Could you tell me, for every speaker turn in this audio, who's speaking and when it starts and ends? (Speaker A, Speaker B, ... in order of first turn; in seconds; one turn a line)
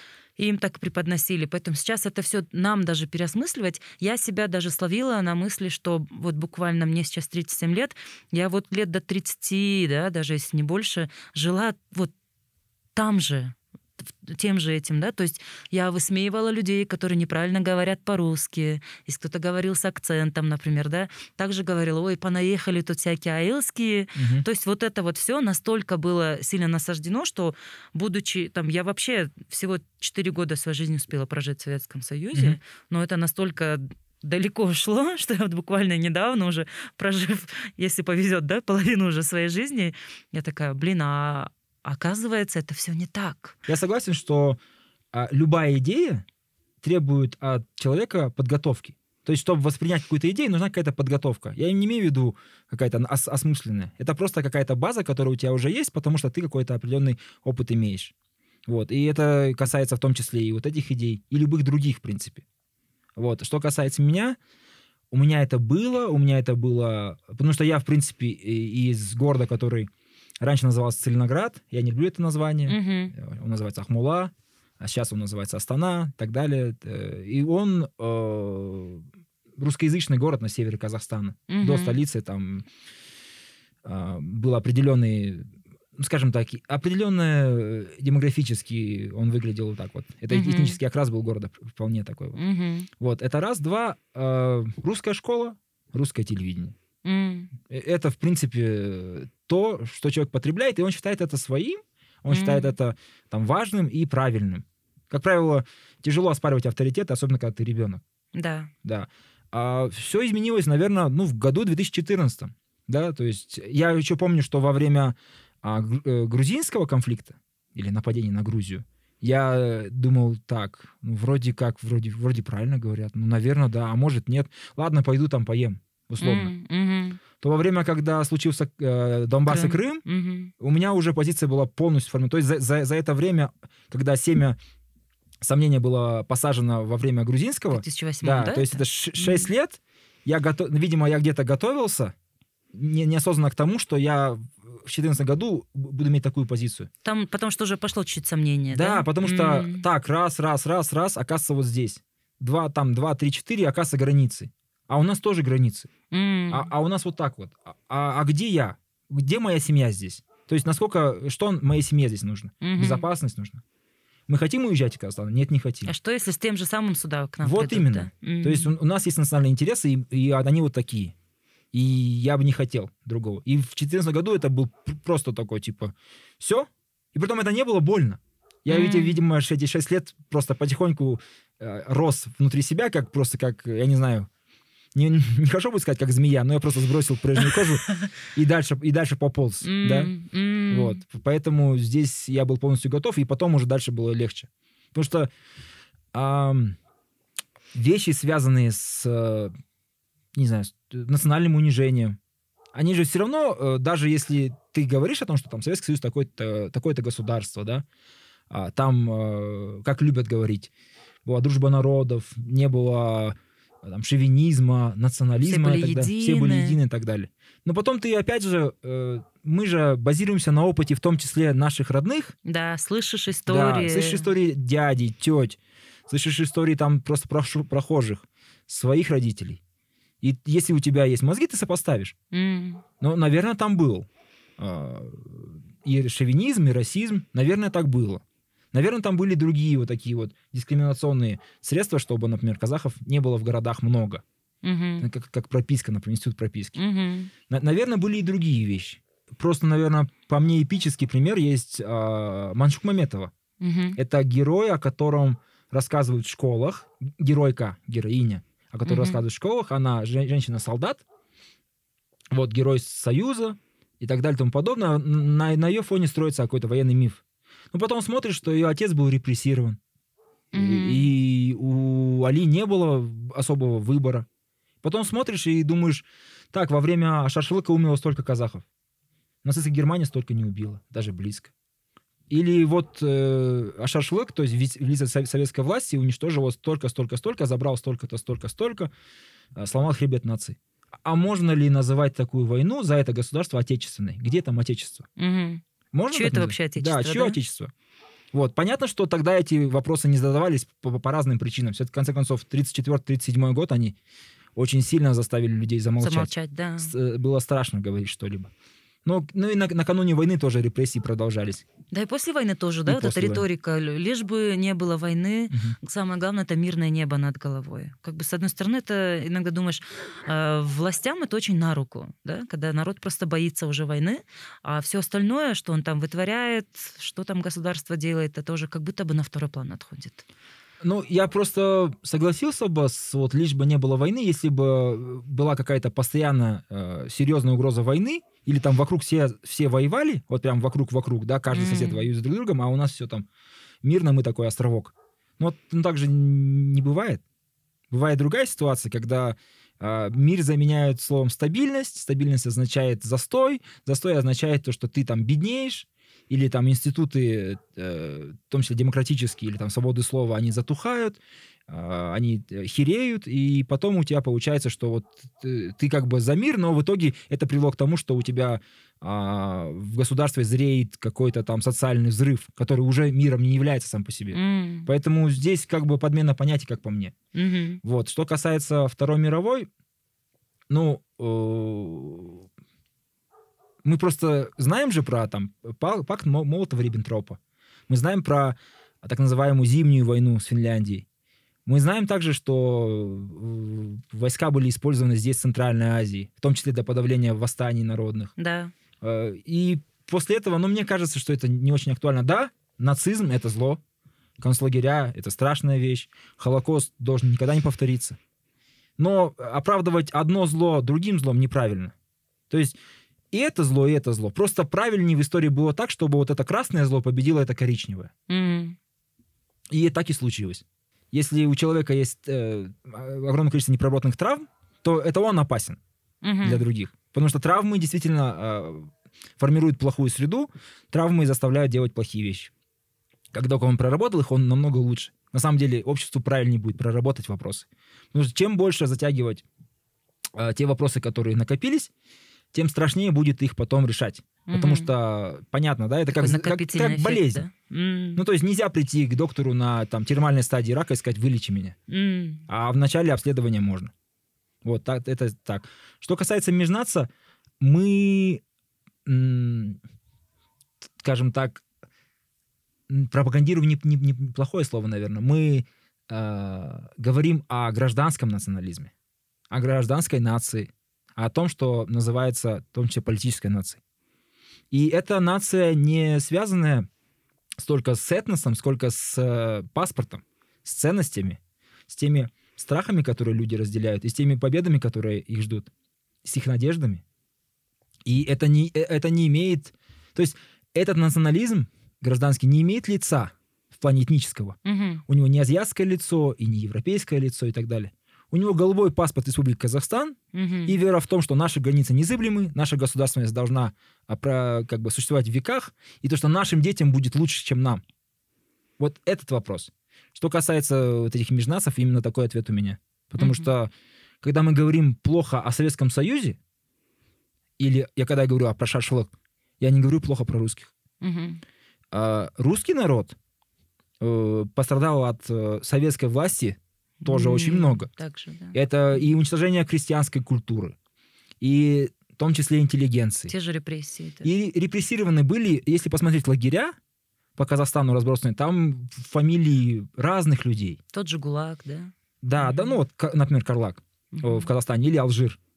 Speaker A: 0.4-12.1
Speaker A: 12.9-43.6
Speaker B: 24.1-24.4
Speaker B: 32.3-32.6
Speaker B: 43.6-44.6
Speaker B: 45.1-46.2
Speaker B: 46.8-58.1
Speaker B: 58.7-62.4
Speaker B: 63.1-64.4
Speaker B: 65.1-69.9
Speaker B: 70.4-79.0
Speaker A: 72.7-73.1
Speaker B: 79.6-82.7
Speaker A: 81.5-82.0
Speaker B: 83.8-92.4
Speaker A: 90.3-90.8
Speaker A: 92.3-92.9
Speaker B: 93.0-96.8
Speaker A: 97.0-97.5
Speaker B: 97.7-108.0
Speaker A: 102.3-102.8
Speaker A: 108.3-108.7
Speaker B: 108.8-126.5
Speaker A: 126.2-127.2
Speaker B: 127.4-130.0
Speaker A: 129.4-130.5
Speaker B: 130.6-134.6
Speaker B: 135.4-142.1
Speaker A: 137.7-139.5
Speaker B: 142.7-146.9
Speaker A: 147.0-149.8
Speaker B: 148.7-155.9
Speaker A: 156.1-156.7
Speaker B: 156.5-163.6
Speaker A: 162.6-163.1
Speaker B: 164.3-165.9
Speaker A: 165.8-168.7
Speaker B: 167.4-171.1
Speaker B: 171.7-184.3
Speaker A: 178.7-179.2
Speaker B: 184.9-190.1
Speaker A: 189.6-191.0
Speaker B: 190.7-195.3
Speaker B: 196.1-196.8
Speaker B: 197.7-199.6
Speaker B: 200.3-202.2
Speaker B: 202.7-207.8
Speaker B: 208.5-210.7
Speaker B: 211.2-222.3
Speaker A: 215.4-216.8
Speaker A: 222.4-224.3
Speaker B: 223.5-229.6
Speaker B: 230.2-232.1
Speaker A: 232.3-232.8
Speaker B: 233.0-234.1
Speaker B: 234.6-244.2
Speaker A: 244.6-245.1
Speaker B: 245.0-246.8
Speaker A: 246.8-247.3
Speaker B: 247.5-253.3
Speaker A: 253.6-254.0
Speaker B: 253.9-261.0
Speaker A: 258.9-259.2
Speaker B: 262.3-269.8
Speaker A: 270.5-271.1
Speaker B: 270.5-274.3
Speaker B: 274.8-278.6
Speaker B: 279.4-281.5
Speaker B: 282.3-288.9
Speaker B: 289.6-295.1
Speaker A: 295.2-297.4
Speaker B: 295.9-297.7
Speaker B: 298.3-303.9
Speaker B: 304.6-308.5
Speaker A: 306.0-306.9
Speaker B: 309.0-311.6
Speaker A: 311.9-330.2
Speaker B: 312.9-313.4
Speaker B: 315.5-315.8
Speaker B: 330.8-343.3
Speaker A: 341.5-342.1
Speaker B: 343.8-347.2
Speaker B: 347.9-377.1
Speaker A: 374.3-374.9
Speaker A: 377.3-377.8
Speaker B: 377.8-379.7
Speaker B: 380.7-382.5
Speaker B: 383.8-391.0
Speaker B: 391.6-398.3
Speaker A: 398.4-398.7
Speaker B: 399.0-403.8
Speaker B: 404.4-408.2
Speaker B: 409.0-411.9
Speaker B: 412.5-412.8
Speaker B: 413.3-418.1
Speaker A: 418.3-418.8
Speaker B: 419.7-425.8
Speaker A: 426.2-426.6
Speaker B: 426.4-432.5
Speaker B: 433.3-439.4
Speaker B: 440.4-441.9
Speaker B: 442.5-447.4
Speaker A: 444.5-444.9
Speaker A: 446.1-448.2
Speaker B: 448.1-451.8
Speaker A: 451.9-452.4
Speaker B: 452.5-453.9
Speaker B: 454.6-457.1
Speaker B: 457.6-458.4
Speaker B: 459.1-459.8
Speaker B: 461.0-461.6
Speaker B: 462.9-468.9
Speaker B: 469.5-473.8
Speaker B: 474.7-476.9
Speaker B: 477.6-485.7
Speaker B: 486.2-487.0
Speaker B: 488.1-507.8
Speaker A: 494.6-495.0
Speaker A: 500.3-500.8
Speaker B: 508.8-516.4
Speaker A: 513.2-513.5
Speaker B: 517.6-520.7
Speaker A: 521.0-521.4
Speaker B: 521.9-523.1
Speaker B: 524.0-527.9
Speaker A: 527.0-529.1
Speaker B: 528.5-530.7
Speaker B: 531.4-533.3
Speaker A: 533.3-534.3
Speaker B: 534.2-536.7
Speaker B: 537.4-540.8
Speaker A: 540.9-542.8
Speaker B: 542.2-545.4
Speaker A: 544.1-544.5